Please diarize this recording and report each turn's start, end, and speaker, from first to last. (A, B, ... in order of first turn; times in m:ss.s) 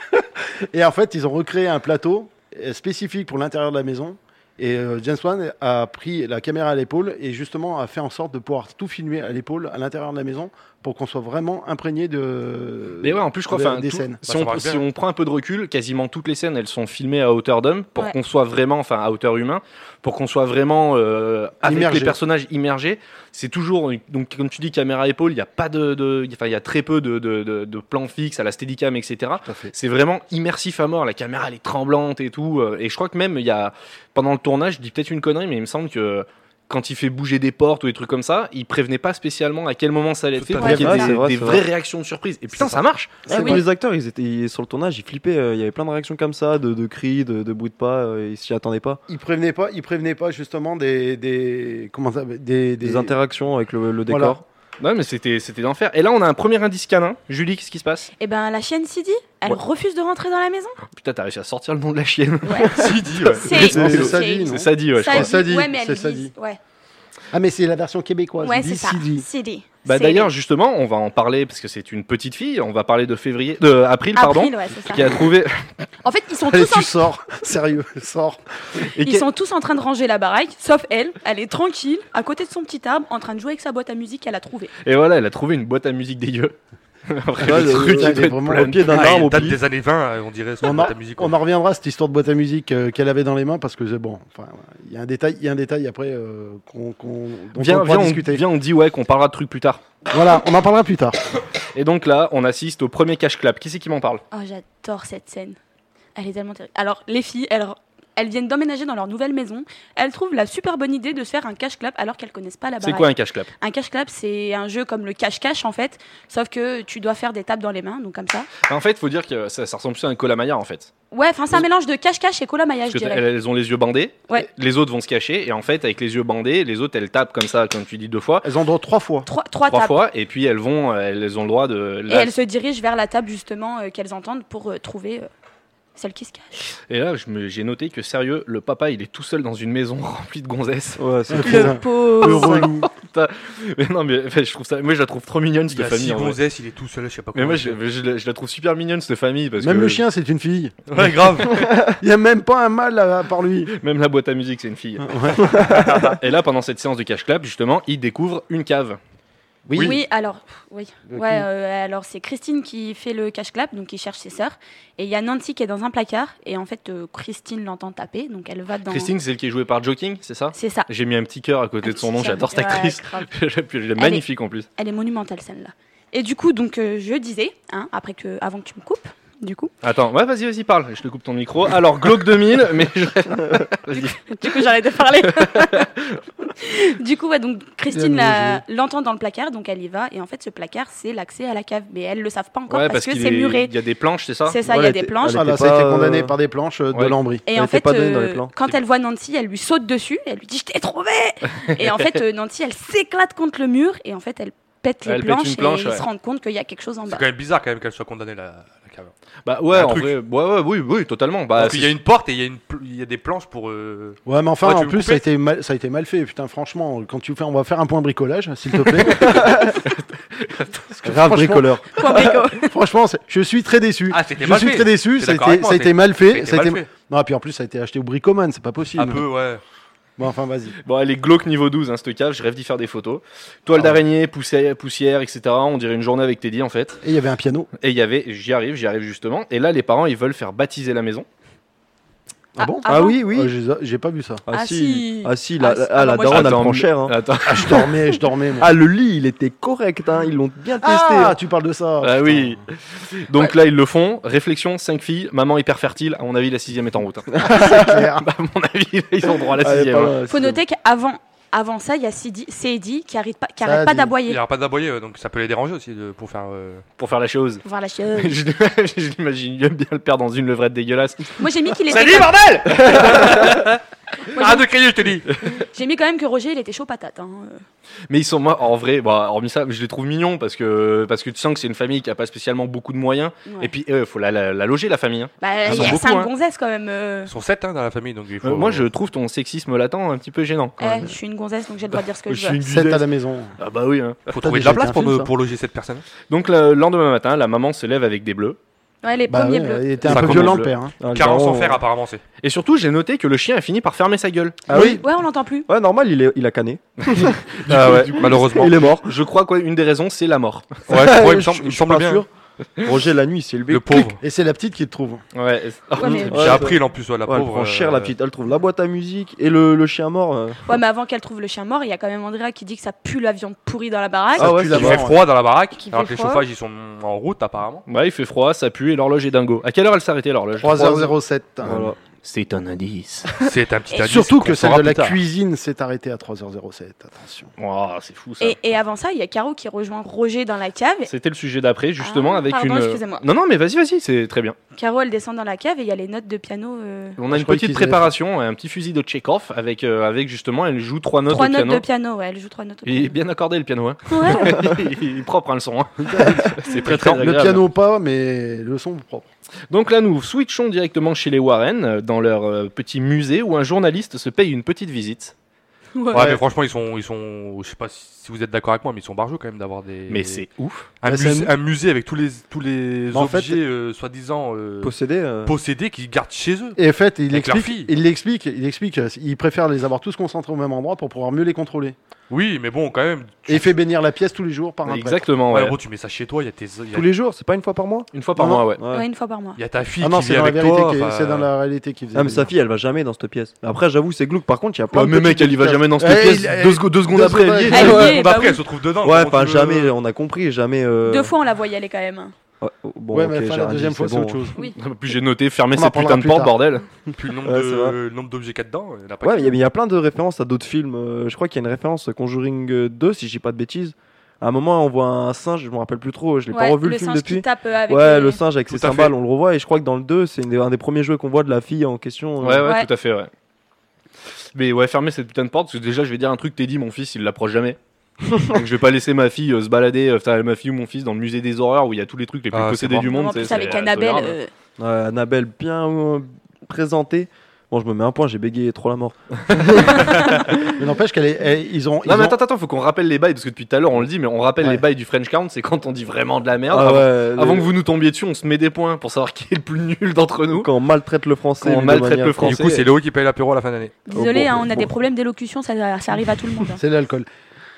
0:00.7-0:14.2 A
0:13.0-0:43.2 B
0:14.2-0:14.8 C
0:21.6-0:22.2 A
0:29.4-0:29.7 A
0:40.4-0:40.8 C
0:40.6-0:41.1 D
0:40.6-0:41.7 E
0:40.7-0:41.2 A
0:43.3-0:43.6 A
0:43.3-0:49.0 E
0:43.3-0:43.6 D
0:49.1-0:53.1 A
0:52.8-0:54.4 E
0:54.1-0:54.4 A
0:54.8-0:58.1 B
0:58.2-1:00.8 D
1:00.9-1:05.3 B
1:02.4-1:02.8 D
1:02.7-1:04.0 C
1:03.4-1:06.6 D
1:03.6-1:06.3 A
1:07.3-1:09.2 A
1:08.4-1:10.3 D
1:09.8-1:15.7 B
1:14.1-1:15.2 D
1:16.0-1:17.0 D
1:16.5-1:18.4 A
1:18.9-1:19.2 B
1:19.0-1:24.7 D
1:24.8-1:26.6 B
1:27.1-1:29.2 B
1:27.4-1:29.6 E
1:27.4-1:29.4 A
1:28.9-1:31.3 C
1:30.6-1:38.4 A
1:37.6-1:39.8 B
1:40.1-1:41.2 A
1:41.7-1:44.2 B
1:44.3-1:45.6 D
1:46.2-1:58.5 D
1:52.8-1:53.5 B
1:58.6-2:00.9 B
2:01.1-2:03.2 D
2:02.9-2:08.4 B
2:08.4-2:09.3 A
2:09.2-2:10.0 D
2:09.7-2:12.3 B
2:12.1-2:15.3 D
2:16.0-2:16.7 D
2:16.9-2:21.0 B
2:21.0-2:21.8 E
2:21.3-2:22.9 A
2:21.4-2:22.7 D
2:22.2-2:26.4 B
2:25.7-2:27.8 C
2:27.3-2:30.0 B
2:29.6-2:30.8 A
2:30.9-2:31.7 C
2:31.5-2:31.9 E
2:32.0-2:33.7 A
2:33.7-2:39.0 B
2:35.0-2:35.6 A
2:35.6-2:36.2 C
2:39.6-2:40.0 A
2:39.8-2:49.1 D
2:41.1-2:41.5 A
2:48.9-2:54.7 B
2:50.5-2:50.9 D
2:51.8-2:53.3 D
2:54.0-2:54.2 D
2:54.8-2:59.7 D
2:59.8-3:04.6 B
3:03.9-3:05.9 D
3:05.3-3:06.2 B
3:06.6-3:13.7 D
3:07.9-3:08.6 A
3:12.7-3:14.6 B
3:14.4-3:15.5 D
3:14.6-3:16.4 E
3:15.2-3:17.4 A
3:17.4-3:27.2 D
3:17.5-3:18.5 E
3:21.6-3:22.2 B
3:25.0-3:26.0 B
3:27.1-3:29.1 C
3:29.4-3:32.0 B
3:29.7-3:30.2 C
3:31.6-3:35.2 C
3:34.2-3:39.7 A
3:39.1-3:41.3 B
3:39.2-3:39.7 E
3:41.0-3:41.9 E
3:41.0-3:49.2 A
3:42.0-3:42.7 D
3:44.1-3:46.9 C
3:49.0-3:49.6 C
3:50.2-3:50.8 A
3:50.8-3:57.0 B
3:57.0-3:57.7 A
3:57.8-4:01.3 B
4:02.6-4:04.4 A
4:02.6-4:03.2 D
4:02.8-4:03.5 E
4:04.5-4:07.2 E
4:04.5-4:06.7 D
4:06.3-4:08.0 B
4:07.4-4:08.7 A
4:08.6-4:11.4 E
4:10.8-4:12.6 A
4:12.0-4:20.1 B
4:17.4-4:18.2 A
4:17.5-4:17.8 E
4:19.6-4:20.6 E
4:20.3-4:24.4 D
4:23.6-4:24.1 A
4:24.2-4:26.8 C
4:27.0-4:27.6 B
4:27.6-4:28.4 D
4:28.2-4:31.4 B
4:31.4-4:32.4 D
4:31.9-4:35.3 C
4:32.0-4:33.5 B
4:34.3-4:34.7 D
4:35.5-4:37.6 D
4:38.1-4:46.3 B
4:43.4-4:43.7 D
4:45.4-4:47.3 D
4:45.6-4:46.0 C
4:47.2-4:48.9 C
4:48.4-4:51.1 B
4:50.8-4:52.6 D
4:52.3-4:53.0 B
4:52.6-4:53.6 A
4:53.6-4:54.4 B
4:54.3-4:56.0 C
4:54.4-4:55.3 A
4:56.3-4:58.6 B
4:59.0-5:00.0 D
4:59.3-5:01.0 A
5:00.0-5:00.7 B
5:00.3-5:01.8 E
5:01.0-5:02.2 C
5:02.4-5:04.6 B
5:04.7-5:05.0 E
5:04.7-5:05.0 A
5:04.7-5:05.7 D
5:05.6-5:09.1 E
5:07.0-5:10.8 B
5:07.7-5:08.8 C
5:10.9-5:12.2 C
5:10.9-5:12.3 E
5:12.8-5:14.1 E
5:13.7-5:14.2 C
5:14.1-5:15.2 A
5:15.3-5:16.6 B
5:16.0-5:16.6 D
5:16.0-5:20.6 E
5:16.3-5:18.1 C
5:20.6-5:24.5 D
5:24.4-5:25.0 E
5:24.4-5:25.2 A
5:24.6-5:27.8 C
5:25.8-5:26.4 D
5:27.9-5:31.1 B
5:30.6-5:31.9 A
5:31.6-5:32.0 E
5:32.2-5:33.3 B
5:33.4-5:35.2 C
5:34.0-5:37.5 A
5:37.6-5:38.6 B
5:38.4-5:41.1 D
5:41.1-5:44.6 B
5:42.0-5:43.2 D
5:44.7-5:47.2 D
5:47.2-5:51.8 B
5:47.3-5:48.1 A
5:51.3-5:53.1 D
5:52.8-5:57.6 B
5:54.1-5:54.8 D
5:56.0-5:59.3 A
5:59.7-6:05.3 B
6:05.9-6:06.4 D
6:06.1-6:10.4 C
6:06.1-6:06.4 A
6:10.1-6:10.9 B
6:11.0-6:14.9 C
6:11.0-6:11.5 A
6:13.1-6:13.6 A
6:14.8-6:15.5 E
6:15.4-6:16.8 C
6:16.8-6:22.0 A
6:17.3-6:17.9 C
6:22.3-6:23.7 C
6:23.5-6:25.2 A
6:24.8-6:25.8 B
6:25.5-6:27.0 C
6:26.9-6:28.1 E
6:28.1-6:28.8 B
6:28.4-6:28.6 A
6:28.8-6:29.1 E
6:28.9-6:29.6 D
6:29.6-6:31.5 C
6:30.0-6:32.5 A
6:32.1-6:35.8 E
6:34.9-6:38.1 B
6:35.8-6:38.2 A
6:37.7-6:38.6 D
6:37.8-6:39.9 C
6:39.0-6:41.3 E
6:41.0-6:42.3 D
6:42.6-6:44.5 E
6:43.1-6:44.6 A
6:44.7-6:46.8 B
6:45.7-6:46.5 A
6:47.2-6:49.6 C
6:47.4-6:48.0 E
6:49.2-7:02.7 E
6:56.5-6:58.4 D
6:58.8-6:59.1 C
7:02.4-7:03.3 B
7:04.5-7:07.8 B
7:08.4-7:14.4 B
7:12.5-7:13.1 C
7:13.0-7:14.5 D
7:14.8-7:20.6 E
7:19.5-7:20.0 B
7:20.6-7:22.4 A
7:22.0-7:30.7 B
7:26.7-7:27.7 E
7:30.5-7:32.6 E
7:31.6-7:32.8 B
7:32.4-7:34.0 C
7:34.0-7:36.8 D
7:34.1-7:34.9 E
7:36.8-7:37.3 A